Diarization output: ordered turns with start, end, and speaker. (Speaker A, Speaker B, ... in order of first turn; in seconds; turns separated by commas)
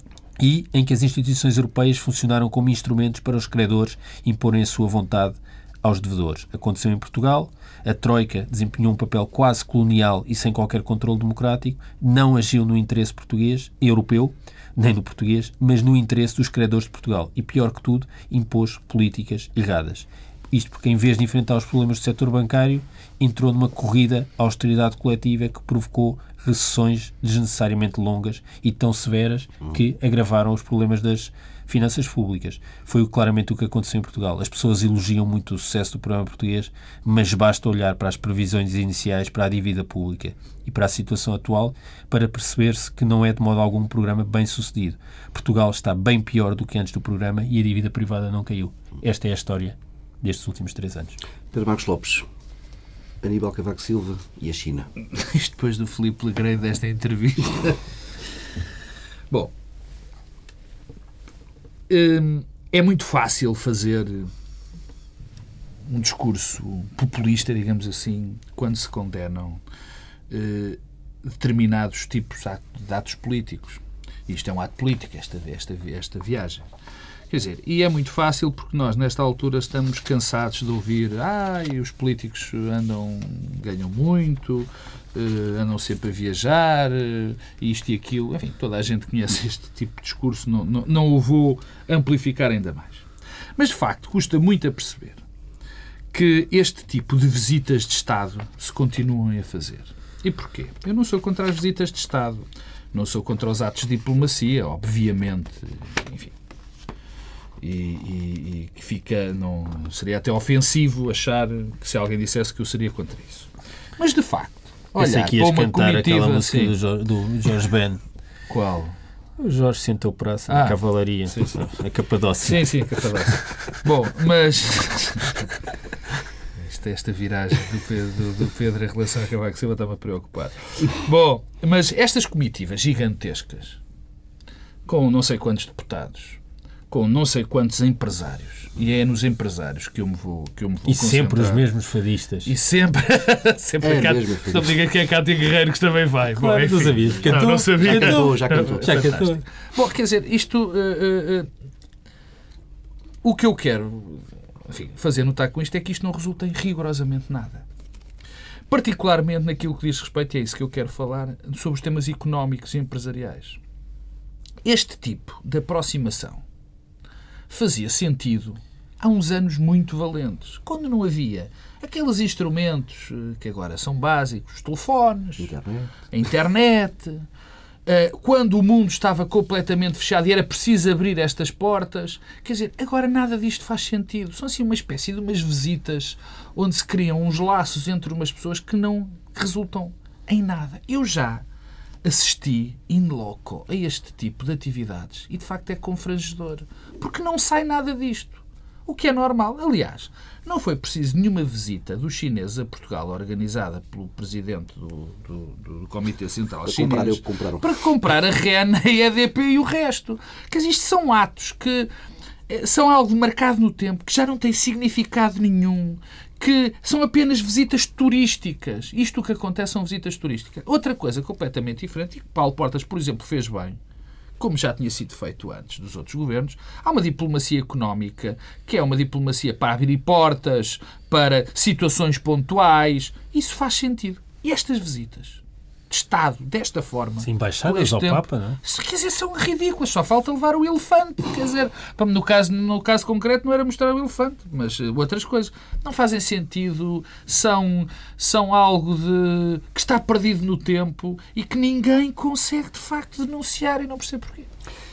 Speaker A: 0.4-51.2, Speaker B: 51.5-52.3, Speaker B: 53.2-54.9, Speaker C: 55.1-57.8, Speaker C: 61.9-64.3, Speaker C: 65.9-69.6, Speaker C: 70.3-76.7, Speaker C: 77.3-95.2, Speaker C: 96.1-106.3, Speaker C: 107.6-116.7, Speaker A: 115.0-118.0, Speaker C: 118.5-119.0, Speaker A: 119.4-123.8, Speaker C: 120.5-121.7, Speaker C: 122.4-125.5, Speaker C: 126.6-133.8, Speaker C: 134.9-141.7, Speaker A: 140.9-142.5, Speaker C: 142.4-151.5, Speaker B: 143.8-144.8, Speaker A: 146.3-149.4, Speaker B: 147.3-149.2, Speaker C: 153.2-157.7, Speaker C: 158.7-163.6, Speaker C: 164.6-166.4, Speaker C: 167.5-175.5, Speaker B: 175.4-176.1, Speaker C: 176.1-177.3, Speaker C: 177.9-191.4, Speaker C: 192.0-211.9, Speaker B: 206.7-207.8, Speaker C: 212.5-223.8, Speaker C: 224.4-254.5, Speaker A: 237.2-238.6